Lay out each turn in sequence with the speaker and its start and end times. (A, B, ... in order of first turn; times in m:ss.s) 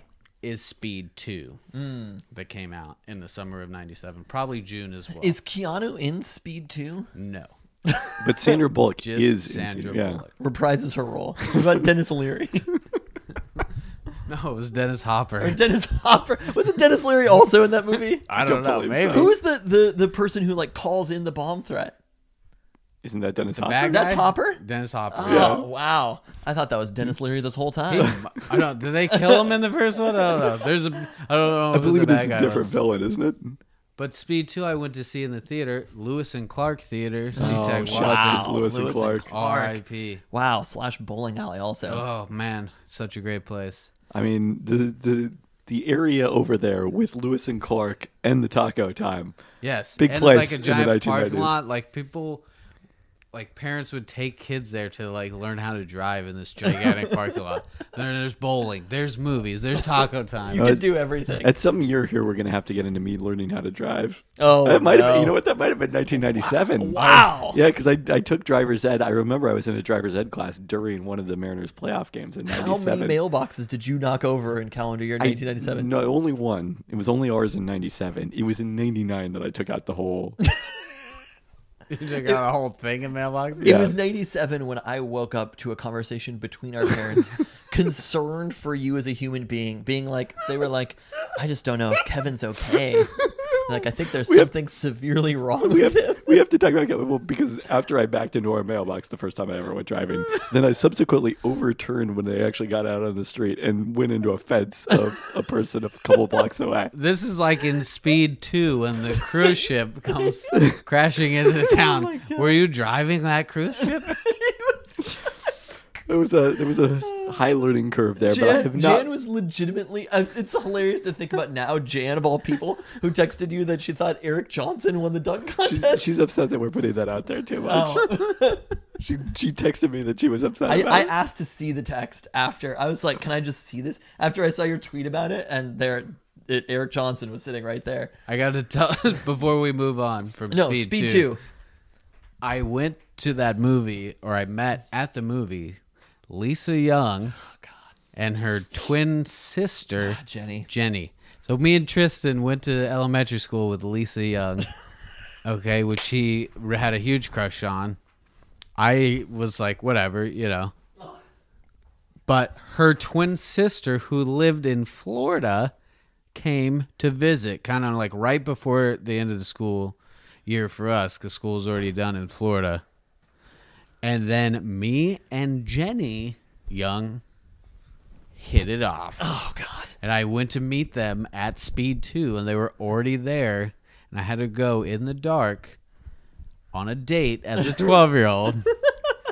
0:00.4-0:01.6 A
0:01.7-0:02.2 B
0:02.3-0:05.4 A
0:05.2-0:07.1 B
0:07.2-0:07.5 A
0:07.9-0:08.6 B
0:08.2-0:10.2 C
0:09.0-0:10.4 A
0:10.4-0:12.8 B
0:14.3-0:15.6 A
0:15.4-0:18.3 B
0:18.3-0:19.4 A
0:18.3-0:19.3 C
0:19.1-0:22.0 B
0:23.0-0:24.1 C
0:23.6-0:25.6 A
0:23.9-0:28.2 B
0:25.3-0:25.7 C
0:27.9-0:32.8 A
0:29.1-0:29.6 B
0:31.7-0:33.6 C
0:34.0-0:38.7 A
0:37.4-0:39.3 C
0:37.4-0:42.0 B
0:39.3-0:40.2 A
0:41.9-0:43.9 A
0:44.1-0:49.4 C
0:49.6-0:52.4 A
0:50.0-0:51.6 C
0:53.3-1:00.8 A
1:00.5-1:01.5 B
1:00.6-1:13.2 C
1:04.4-1:05.4 B
1:06.5-1:07.6 B
1:12.5-1:15.9 B
1:15.2-1:20.4 C
1:21.9-1:23.8 A
1:23.6-1:36.3 B
1:23.6-1:24.0 C
1:33.2-1:33.6 C
1:34.3-1:34.5 C
1:35.6-1:46.9 C
1:46.9-1:54.2 A
1:51.6-1:52.6 B
1:54.2-1:55.1 B
1:56.1-1:59.1 C
1:58.2-2:06.1 B
2:05.6-2:08.3 C
2:07.6-2:08.7 B
2:09.0-2:11.1 C
2:10.7-2:18.1 B
2:18.3-2:21.3 A
2:20.5-2:21.4 B
2:22.4-2:25.8 A
2:26.3-2:27.4 A
2:28.1-2:34.7 A
2:30.0-2:30.7 B
2:35.4-2:38.0 A
2:38.8-2:40.7 A
2:42.3-2:45.7 A
2:46.3-2:52.8 A
2:54.0-2:57.2 A
2:58.4-2:59.3 A
2:59.2-3:00.0 B
3:00.0-3:05.8 A
3:06.7-3:08.7 A